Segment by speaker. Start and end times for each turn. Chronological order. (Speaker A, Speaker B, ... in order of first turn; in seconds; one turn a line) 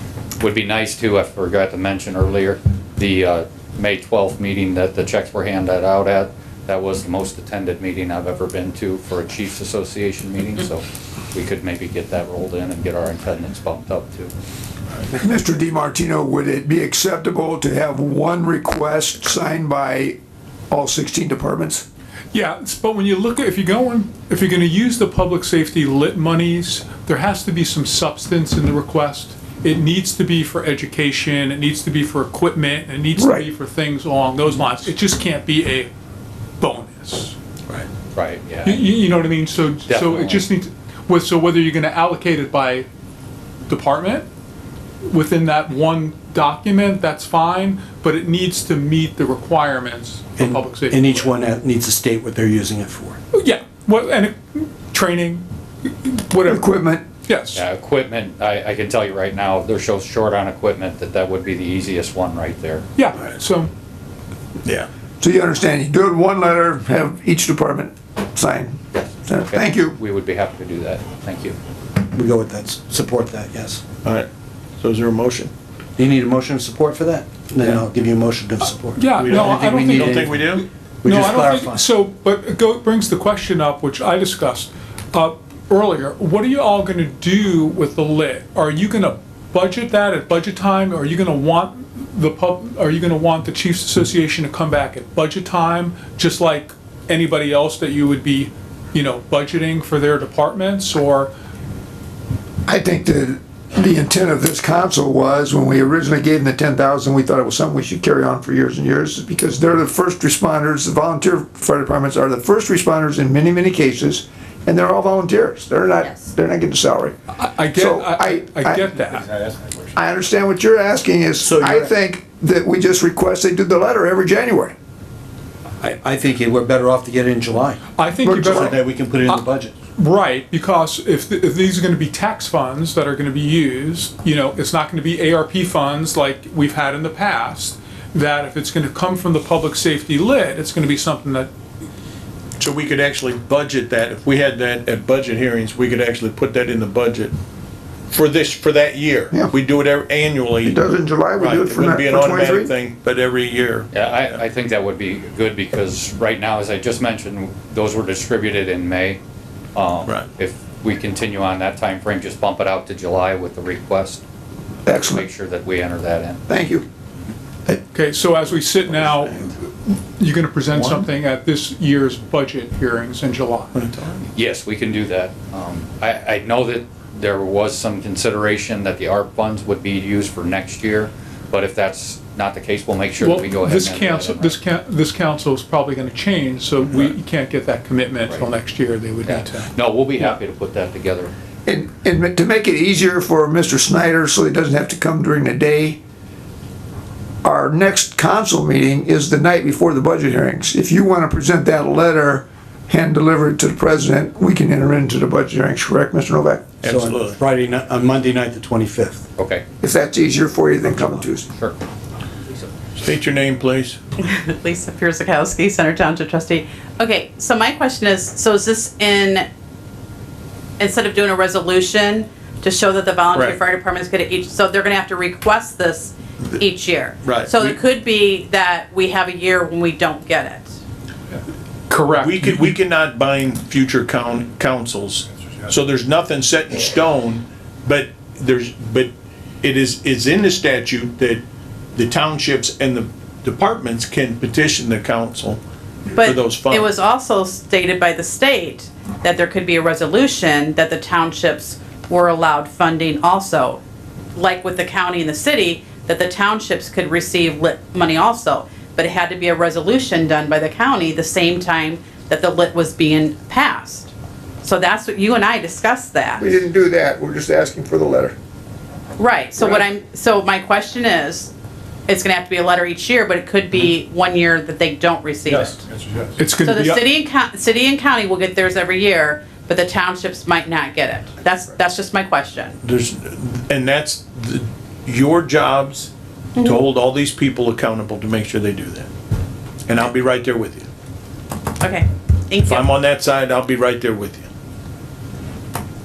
Speaker A: 0.4-14.3
Speaker B: 15.1-20.1
Speaker B: 20.7-21.8
Speaker C: 22.3-35.9
Speaker B: 33.1-33.5
Speaker C: 36.6-37.3
Speaker A: 38.1-39.0
Speaker C: 38.6-42.9
Speaker A: 39.9-40.4
Speaker C: 43.7-44.2
Speaker C: 45.1-51.3
Speaker D: 50.4-53.2
Speaker C: 53.3-56.7
Speaker B: 56.4-57.0
Speaker C: 57.2-57.6
Speaker A: 57.5-62.9
Speaker C: 63.0-63.7
Speaker B: 65.2-70.0
Speaker A: 69.5-71.6
Speaker D: 72.1-73.8
Speaker E: 74.0-74.3
Speaker E: 74.8-75.5
Speaker D: 76.0-81.8
Speaker C: 79.0-101.3
Speaker E: 79.2-80.6
Speaker B: 102.7-117.1
Speaker C: 117.3-119.3
Speaker B: 117.7-118.9
Speaker B: 119.9-124.7
Speaker D: 121.5-121.9
Speaker D: 125.8-127.8
Speaker C: 127.9-141.5
Speaker B: 128.2-128.7
Speaker D: 128.4-129.8
Speaker E: 142.6-147.3
Speaker E: 148.1-150.8
Speaker B: 150.6-152.7
Speaker E: 151.4-154.4
Speaker A: 153.9-159.2
Speaker A: 159.7-164.2
Speaker B: 164.8-165.2
Speaker A: 164.9-166.4
Speaker B: 166.5-166.8
Speaker C: 167.7-173.7
Speaker E: 170.8-171.0
Speaker E: 173.7-174.2
Speaker A: 174.3-184.6
Speaker C: 183.2-189.7
Speaker A: 189.2-191.3
Speaker B: 191.7-196.0
Speaker B: 197.4-206.7
Speaker E: 206.8-207.4
Speaker D: 206.8-209.2
Speaker A: 209.4-209.6
Speaker B: 209.8-211.5
Speaker A: 211.5-211.8
Speaker E: 213.0-214.0
Speaker F: 214.2-219.4
Speaker F: 220.8-230.7
Speaker C: 223.3-223.6
Speaker E: 227.2-227.8
Speaker C: 231.9-232.8
Speaker E: 232.2-241.4
Speaker E: 241.9-245.6
Speaker F: 246.2-253.8
Speaker E: 246.2-246.9
Speaker F: 254.3-264.1
Speaker F: 264.6-266.5
Speaker B: 266.4-268.3
Speaker F: 269.2-271.5
Speaker F: 272.1-275.8
Speaker C: 276.4-277.0
Speaker F: 276.6-282.8
Speaker E: 282.8-286.1
Speaker E: 286.6-289.1
Speaker E: 289.9-290.9
Speaker F: 291.8-292.9
Speaker E: 292.6-294.5